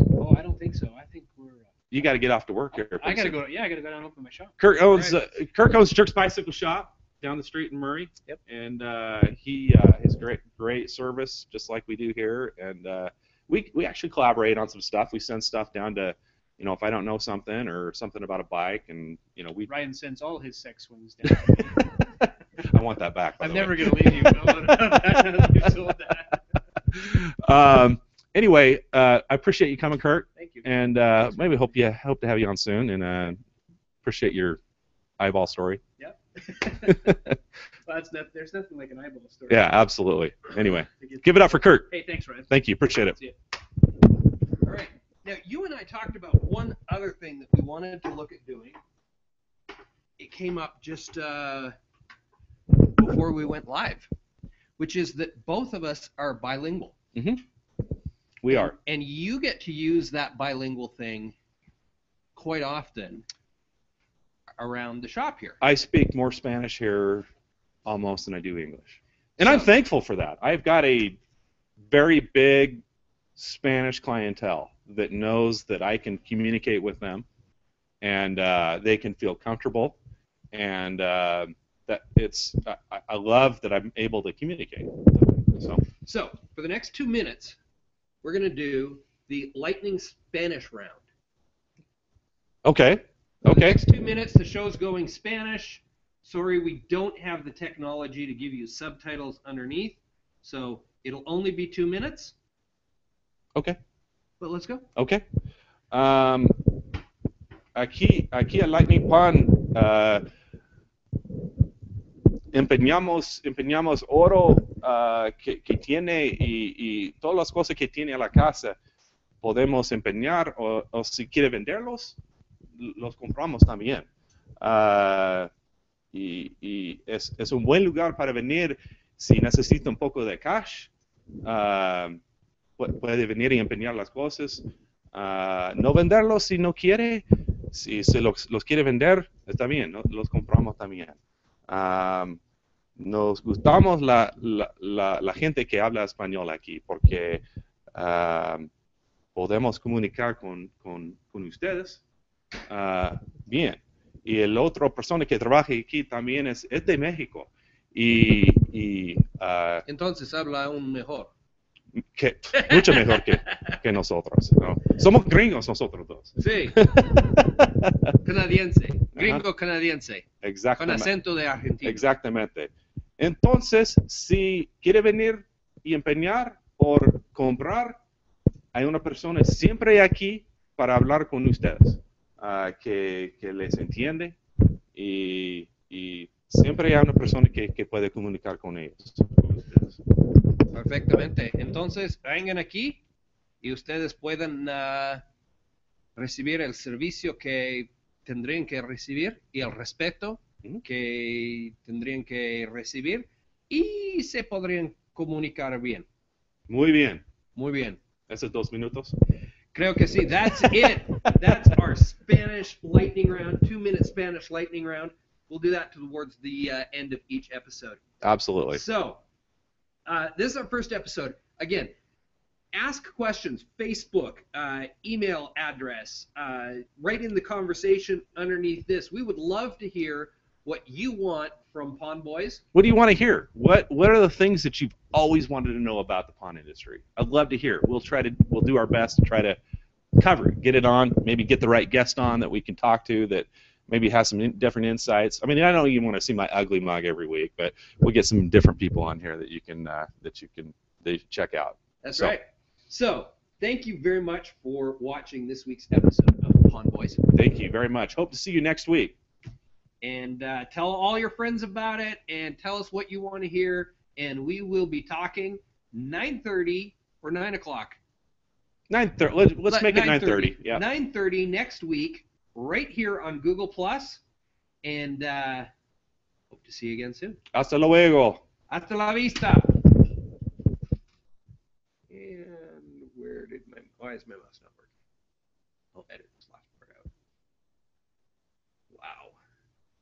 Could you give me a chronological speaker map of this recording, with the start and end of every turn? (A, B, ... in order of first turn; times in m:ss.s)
0:00.1-0:01.7 A
0:01.9-0:03.4 B
0:02.8-0:04.6 A
0:04.6-0:19.7 B
0:04.9-0:05.2 C
0:19.7-0:22.1 A
0:22.6-0:25.7 B
0:23.4-0:26.4 A
0:26.9-0:33.4 B
0:30.4-0:30.7 A
0:34.0-0:34.6 B
0:35.2-0:35.8 B
0:36.0-0:37.3 A
0:36.9-0:37.3 B
0:37.8-0:39.7 A
0:39.5-0:41.9 B
0:40.5-0:42.5 A
0:42.5-0:43.2 B
0:44.6-0:48.8 C
0:50.2-0:51.7 C
0:52.8-0:54.1 C
0:54.8-0:57.0 C
0:57.1-0:57.4 B
0:58.4-0:58.7 B
0:58.5-1:01.3 C
1:02.3-1:03.2 C
1:04.6-1:05.6 C
1:05.6-1:07.3 B
1:07.8-1:11.2 B
1:09.4-1:09.7 C
1:11.9-1:12.8 B
1:13.4-1:17.2 B
1:18.0-1:20.0 B
1:20.5-1:25.8 B
1:26.0-1:27.6 C
1:28.2-1:31.0 C
1:32.6-1:33.8 B
1:33.4-1:42.3 C
1:44.4-1:44.8 C
1:45.0-1:45.2 B
1:45.9-1:46.7 B
1:47.7-1:50.2 B
1:52.5-1:58.8 B
1:59.4-2:02.2 B
2:02.8-2:04.1 B
2:04.6-2:05.5 B
2:06.1-2:10.9 B
2:11.4-2:12.2 B
2:12.8-2:22.4 B
2:23.0-2:27.4 B
2:27.9-2:28.7 B
2:29.3-2:32.0 B
2:32.7-2:39.8 B
2:39.8-2:41.3 C
2:42.0-2:48.2 B
2:42.6-2:43.8 C
2:46.4-2:46.9 C
2:48.1-2:52.0 C
2:49.2-2:49.4 B
2:50.4-2:51.1 B
2:51.8-2:58.0 B
2:58.7-3:04.4 B
3:04.9-3:10.0 B
3:10.7-3:13.0 C
3:13.6-3:15.2 C
3:16.2-3:26.1 C
3:26.7-3:27.2 B
3:27.6-3:28.0 C
3:28.3-3:29.1 B
3:29.7-3:38.0 C
3:38.2-3:38.8 B
3:38.7-3:39.2 C
3:40.0-3:41.9 C
3:42.7-3:52.6 C
3:52.7-3:59.6 B
4:00.2-4:12.4 B
4:12.0-4:17.2 C
4:17.3-4:19.2 B
4:20.0-4:28.0 C
4:28.9-4:30.8 B
4:29.7-4:34.2 C
4:34.8-4:35.7 C
4:36.5-4:37.4 C
4:37.5-4:38.4 B
4:38.7-4:40.0 C
4:42.1-4:44.9 C
4:45.9-4:47.1 C
4:48.9-4:49.3 C